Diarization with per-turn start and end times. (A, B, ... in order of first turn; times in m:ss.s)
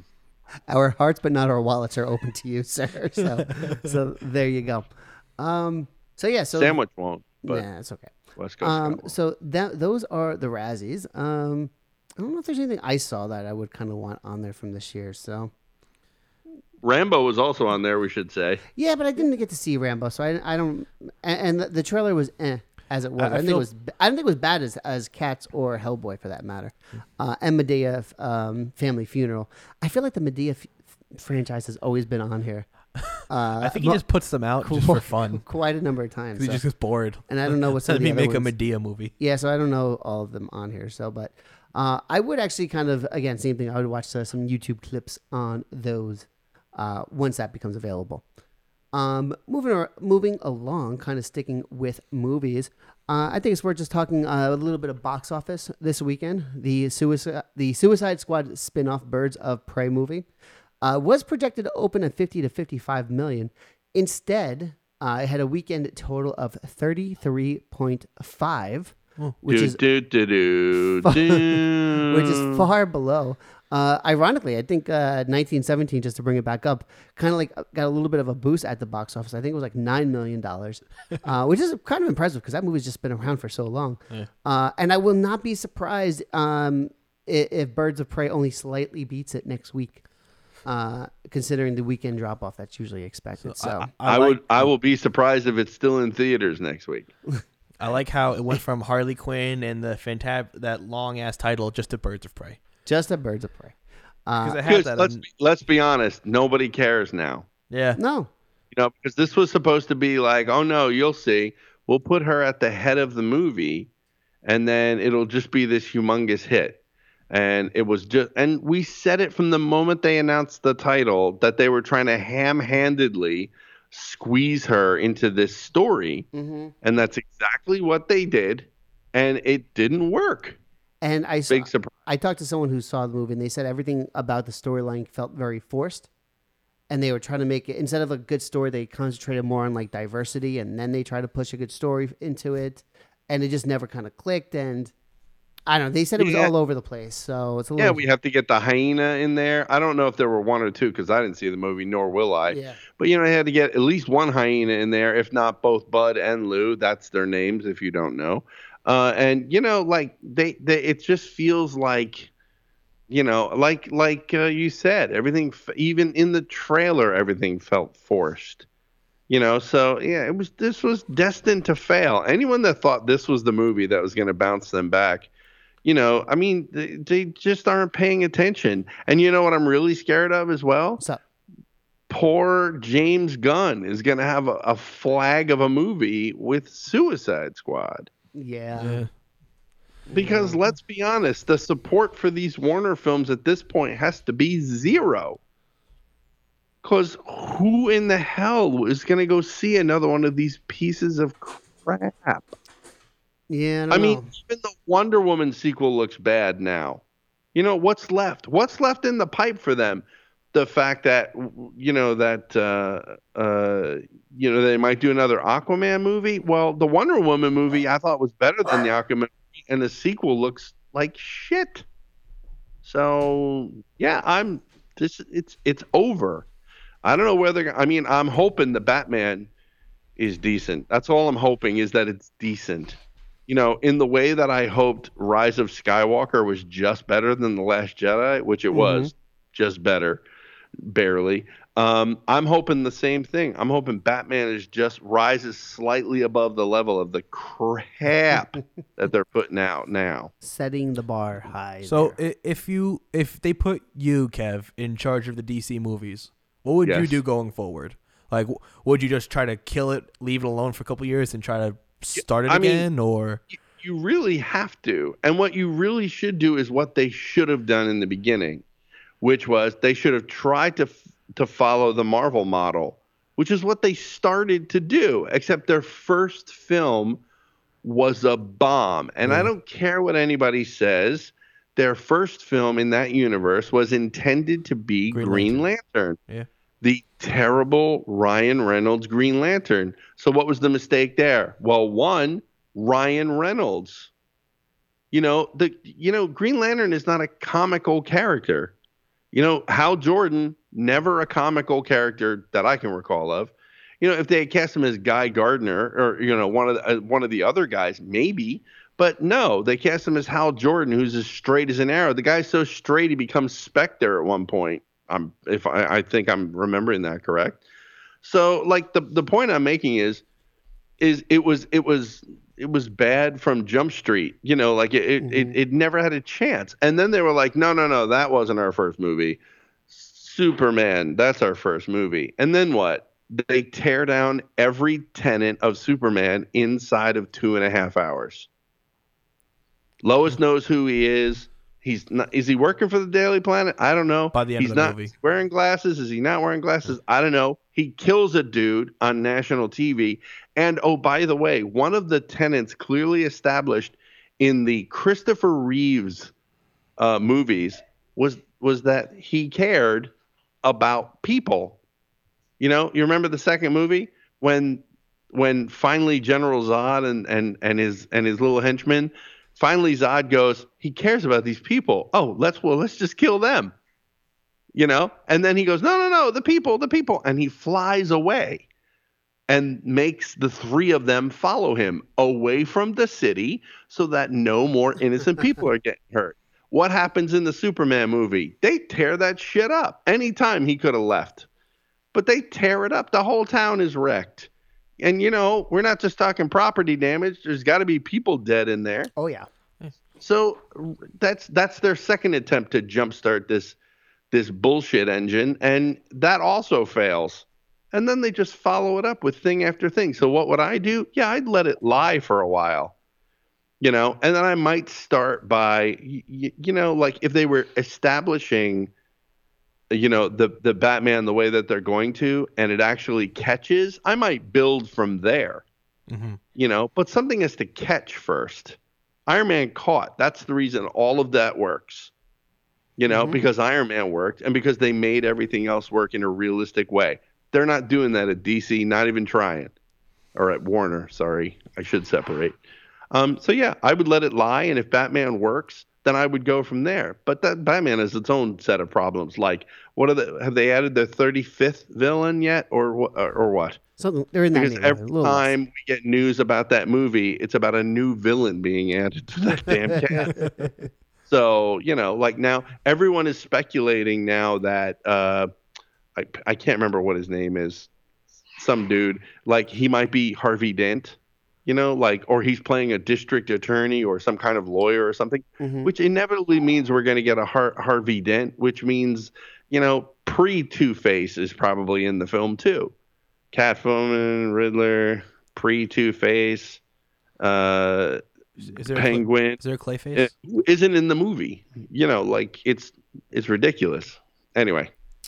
0:00.7-0:06.8 A
0:06.5-0:07.6 B
0:07.4-0:15.5 A
0:08.4-0:09.1 B
0:16.8-0:18.6 B
0:18.7-0:38.6 A
0:23.2-0:23.7 C
0:33.6-0:35.4 C
0:36.4-0:39.1 C
0:39.2-0:48.2 A
0:48.9-1:00.3 A
1:00.8-1:09.8 A
1:09.5-1:12.6 B
1:11.0-1:30.0 A
1:30.6-1:33.9 A
1:33.4-1:34.7 C
1:34.0-1:37.1 B
1:37.8-1:42.6 C
1:42.8-1:44.6 A
1:44.4-1:45.2 C
1:44.6-1:47.5 B
1:47.7-1:48.0 C
1:48.0-1:48.3 A
1:48.7-1:53.9 B
1:54.4-1:56.8 B
1:57.3-2:06.3 B
2:06.3-2:06.7 A
2:06.8-2:10.6 B
2:11.0-2:16.1 A
2:11.5-2:11.9 B
2:16.9-2:24.9 A
2:25.7-2:28.0 A
2:26.2-2:26.5 B
2:27.8-2:42.3 B
2:32.5-2:32.8 A
2:43.1-2:48.6 B
2:49.3-2:55.3 B
2:55.8-3:01.0 B
3:02.1-3:08.1 B
3:08.3-3:09.0 A
3:08.8-3:09.1 C
3:10.1-3:10.6 A
3:10.1-3:15.4 B
3:16.8-3:22.5 B
3:23.5-3:24.3 A
3:23.9-3:27.0 B
3:27.5-3:41.8 B
3:42.8-3:46.5 B
3:47.0-3:49.5 B
3:50.2-4:00.2 B
3:58.7-3:59.1 A
4:00.8-4:10.3 B
4:10.4-4:12.2 A
4:11.8-4:23.4 C
4:16.8-4:17.2 B
4:22.5-4:22.9 B
4:23.6-4:28.6 B
4:29.2-4:37.2 B
4:37.8-4:46.2 B
4:39.2-4:39.5 C
4:45.1-4:45.6 C
4:46.8-4:54.1 B
4:55.1-4:58.7 B
4:59.3-5:17.6 B
5:18.2-5:20.2 B
5:21.0-5:29.4 B
5:25.2-5:25.6 A
5:29.9-5:38.5 B
5:40.0-5:56.3 B
5:44.3-5:45.1 C
5:57.0-6:00.1 B
6:00.6-6:01.8 B
6:02.6-6:13.7 B
6:14.7-6:18.6 B
6:19.5-6:31.5 B
6:32.1-6:39.1 B
6:39.2-6:39.5 A
6:40.2-6:43.8 B
6:44.3-6:52.9 B
6:53.8-6:58.9 B
6:59.9-7:05.6 B
7:06.1-7:06.4 C
7:06.6-7:12.1 B
7:13.0-7:19.7 B
7:13.1-7:13.4 A
7:20.4-7:22.6 B
7:23.1-7:33.8 B
7:34.0-7:35.5 A
7:34.5-7:40.4 B
7:39.9-7:40.8 A
7:41.3-7:45.5 B
7:46.2-7:47.9 B
7:48.6-8:02.9 B
7:55.6-7:55.9 A
8:03.5-8:06.8 B
8:07.4-8:08.2 B
8:08.6-8:10.3 C
8:08.9-8:09.6 B
8:10.1-8:14.9 B